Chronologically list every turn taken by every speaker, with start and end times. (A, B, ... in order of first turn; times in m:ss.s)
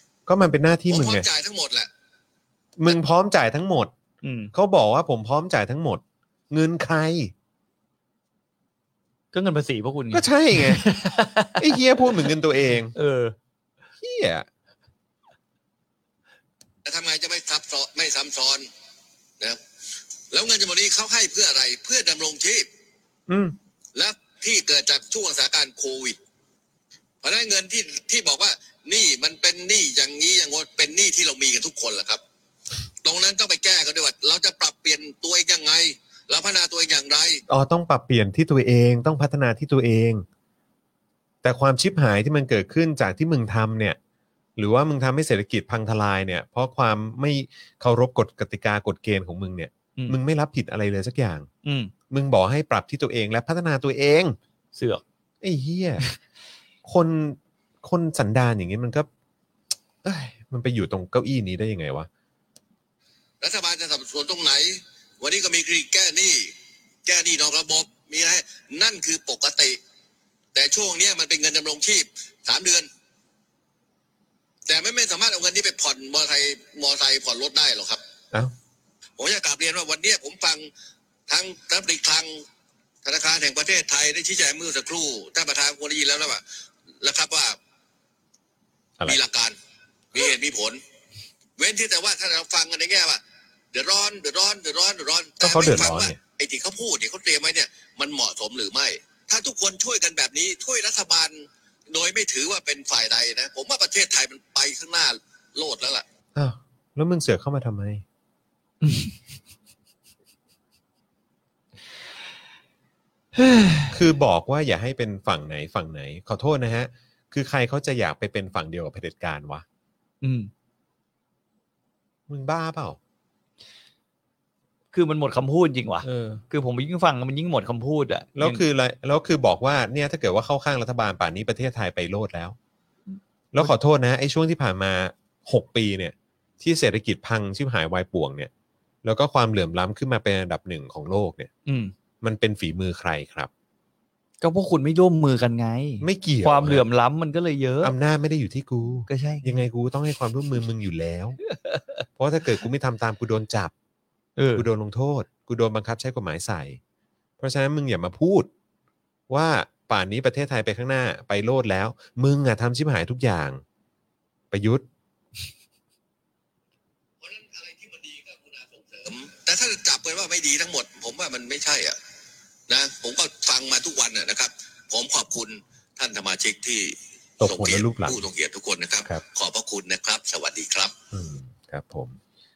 0:00.3-0:01.3 A
0:00.9-0:01.9 B
0:02.8-0:03.9 A
0:04.2-0:04.5 C
0:04.5-0:07.3 A
0:09.3-0:12.3 C
0:10.1-0:13.0 A
0:13.0-0:13.4 C
0:14.0-0:14.5 A
0:16.8-0:18.7 B
0:20.3-0:22.7 B
0:23.3-0:23.6 A
0:24.0-0:26.2 B
0:27.2-0:32.2 B
0:33.0-0:37.4 B
0:37.5-0:40.2 A
0:41.4-0:44.0 A
0:44.6-0:51.5 A
0:51.6-0:51.9 C
0:52.1-0:54.4 A
0:54.8-0:55.0 C
0:55.4-0:56.0 A
0:56.8-0:59.1 A
1:00.0-1:02.1 A
1:03.4-1:06.5 B
1:07.1-1:09.8 B
1:10.5-1:12.9 B
1:14.7-1:18.0 B
1:19.2-1:20.7 B
1:21.3-1:22.4 B
1:23.0-1:26.4 B
1:27.0-1:27.6 B
1:29.0-1:29.6 B
1:30.1-1:30.8 B
1:31.6-1:33.2 B
1:33.7-1:46.0 B
1:35.4-1:36.2 A
1:46.4-1:48.0 A
1:48.8-1:49.1 C
1:53.4-1:54.0 C
1:53.9-1:59.6 A
2:00.2-2:00.5 C
2:02.3-2:03.0 A
2:04.9-2:08.6 C
2:06.0-2:06.4 A
2:08.4-2:12.6 A
2:13.5-2:18.5 A
2:19.0-2:21.5 A
2:21.7-2:21.9 C
2:22.2-2:23.5 A
2:24.4-2:27.9 C
2:26.0-2:26.9 A
2:27.8-2:31.4 A
2:29.1-2:29.5 C
2:32.2-2:33.7 A
2:34.4-2:34.7 C
2:34.5-2:36.8 A
2:37.4-2:38.5 A
2:39.3-2:43.6 A
2:44.5-2:44.9 A
2:47.2-2:52.0 B
2:52.7-3:01.0 B
2:57.4-2:58.2 A
3:01.1-3:02.2 A